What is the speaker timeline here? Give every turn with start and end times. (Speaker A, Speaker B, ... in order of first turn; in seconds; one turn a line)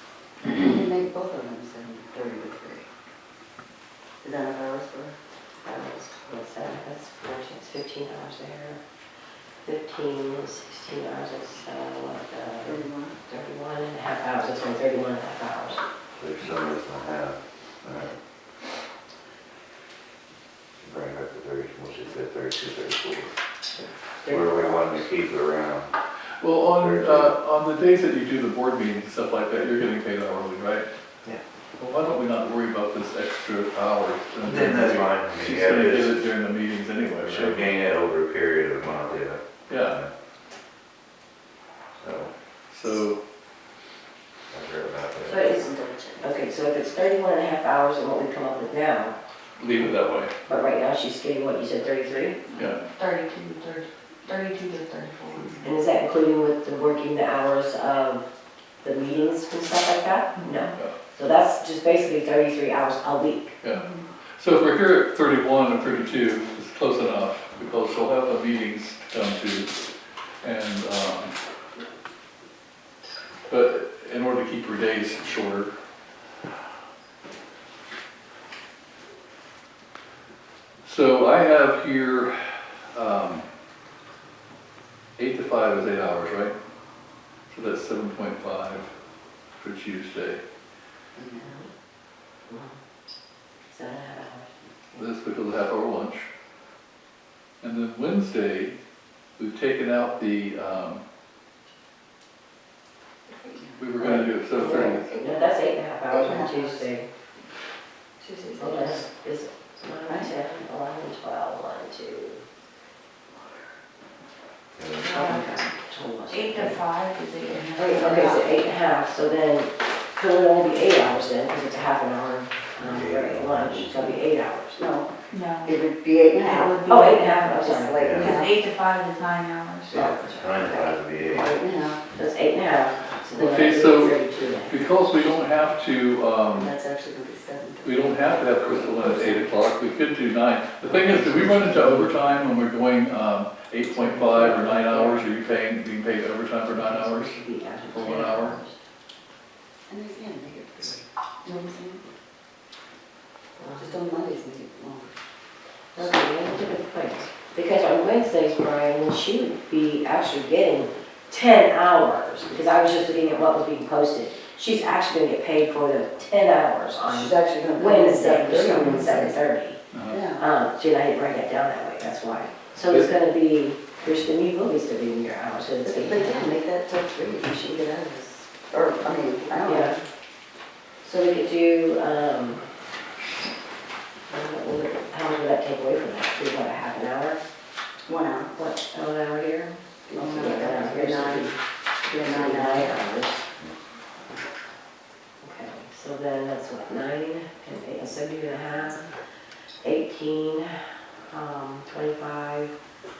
Speaker A: 0.4-2.9
Speaker A: 4.2-5.2
Speaker B: 5.7-8.8
Speaker B: 9.6-15.8
Speaker A: 12.6-13.2
Speaker C: 16.2-18.2
Speaker C: 20.8-23.3
Speaker B: 24.2-25.1
Speaker C: 24.2-25.9
Speaker D: 26.4-30.9
Speaker C: 26.7-27.4
Speaker D: 31.8-37.7
Speaker C: 34.4-36.2
Speaker C: 37.2-40.1
Speaker D: 39.7-40.0
Speaker C: 42.0-42.3
Speaker D: 42.7-43.2
Speaker C: 44.5-45.5
Speaker B: 45.2-49.2
Speaker A: 45.4-46.4
Speaker D: 49.6-50.3
Speaker B: 50.5-52.5
Speaker D: 52.5-52.8
Speaker E: 52.6-55.7
Speaker B: 55.6-58.2
Speaker B: 58.8-63.6
Speaker E: 63.7-64.1
Speaker D: 64.4-69.7
Speaker D: 70.4-71.3
Speaker D: 73.5-75.7
Speaker D: 80.8-83.5
Speaker D: 85.2-86.5
Speaker D: 87.5-88.9
Speaker D: 89.6-90.4
Speaker A: 91.2-91.6
Speaker B: 91.4-91.7
Speaker B: 92.5-92.8
Speaker B: 93.7-95.0
Speaker D: 95.0-96.3
Speaker D: 97.6-98.8
Speaker D: 99.4-101.0
Speaker A: 103.3-106.9
Speaker D: 103.8-105.1
Speaker B: 104.0-107.1
Speaker A: 108.2-109.1
Speaker B: 108.6-112.4
Speaker C: 114.8-115.2
Speaker E: 115.0-115.6
Speaker B: 115.0-116.8
Speaker E: 116.3-118.7
Speaker A: 117.8-118.4
Speaker B: 117.9-124.8
Speaker C: 122.8-124.2
Speaker A: 124.8-126.9
Speaker E: 125.3-125.8
Speaker E: 126.4-130.6
Speaker B: 126.9-128.0
Speaker A: 127.5-128.6
Speaker C: 128.0-128.3
Speaker C: 129.9-131.6
Speaker A: 130.6-132.0
Speaker B: 132.2-135.6
Speaker D: 133.3-136.7
Speaker A: 136.5-138.6
Speaker D: 137.8-147.4
Speaker A: 140.9-142.0
Speaker B: 141.6-141.9
Speaker B: 143.9-145.3
Speaker B: 146.7-148.8
Speaker D: 147.9-148.6
Speaker A: 149.9-152.0
Speaker B: 153.6-154.0
Speaker A: 153.8-155.2
Speaker B: 155.9-169.8
Speaker A: 167.1-169.4
Speaker D: 169.9-170.2
Speaker A: 170.1-170.5
Speaker B: 170.4-176.5
Speaker A: 175.8-180.0
Speaker B: 179.6-180.0
Speaker B: 181.0-182.7
Speaker B: 184.3-187.4
Speaker A: 188.1-188.5
Speaker B: 188.5-191.6
Speaker A: 190.1-191.5
Speaker A: 192.1-193.0
Speaker B: 192.2-193.4
Speaker B: 195.4-199.1
Speaker B: 199.8-202.7